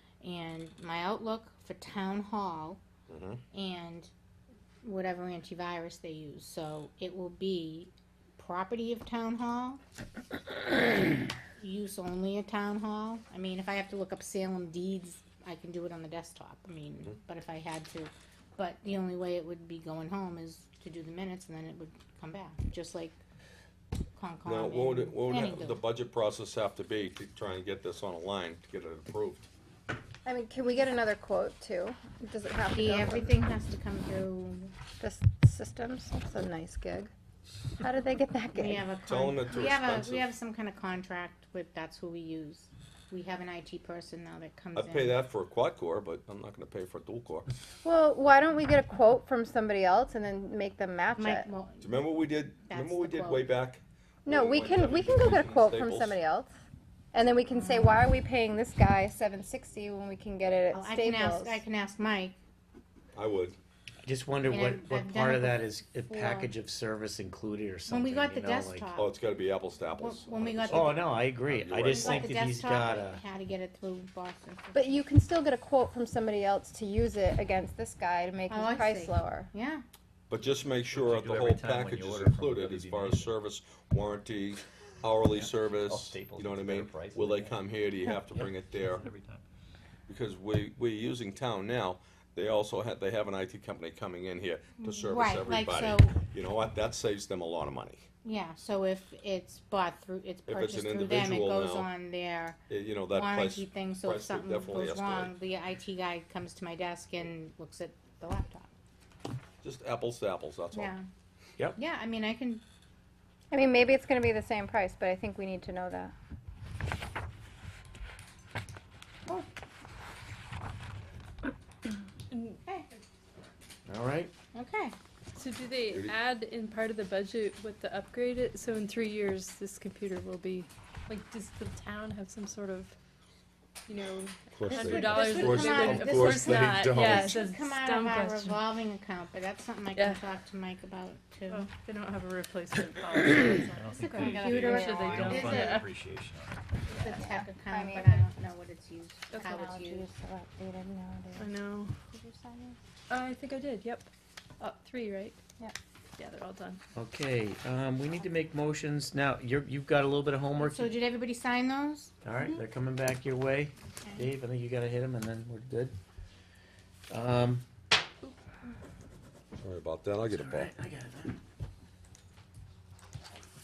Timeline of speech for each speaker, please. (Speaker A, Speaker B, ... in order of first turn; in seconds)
Speaker A: 0.2-2.8, 3.5-4.1, 4.8-9.8, 10.7-23.2, 24.2-25.9, 32.8-34.7, 38.5-45.2, 51.2-52.1, 52.6-53.5, 57.5-58.0, 60.7-62.4, 64.5-66.5, 67.9-69.1, 70.0-71.1, 71.9-75.0, 78.5-79.8, 94.8-96.2, 98.2-102.6, 103.1-108.7, 110.7-111.1, 111.8-112.6, 124.5-125.0, 134.7-141.7, 143.9-145.9, 146.9-150.1, 160.6-162.1, 164.0-164.3
Speaker B: 3.1-3.4, 24.4-29.4, 39.1-40.3, 44.8-47.5, 51.8-56.1, 63.1-63.6, 69.0-72.3, 80.3-89.0, 90.1-98.0, 100.5-101.9, 102.7-105.3, 109.6-110.9, 125.8-126.2, 134.5-137.3, 169.6-170.7
Speaker C: 30.2-33.3, 35.0-37.1, 37.8-38.9, 47.8-51.5, 54.3-56.5, 57.1-61.6, 74.8-79.5, 113.5-116.1, 135.2-135.7, 144.5-145.0, 147.1-148.2, 149.4-152.8
Speaker D: 64.0-68.9, 70.7-73.2, 123.9-124.3, 156.9-160.9, 162.2-166.0, 167.1-167.6, 170.3-171.4
Speaker E: 80.9-83.4, 85.3-89.4, 143.7-146.6
Speaker F: 122.3-122.6, 125.3-132.9, 133.9-138.6, 140.0-140.2, 141.5-145.8, 151.4-151.9, 153.1-154.1, 154.6-155.4, 156.2-156.8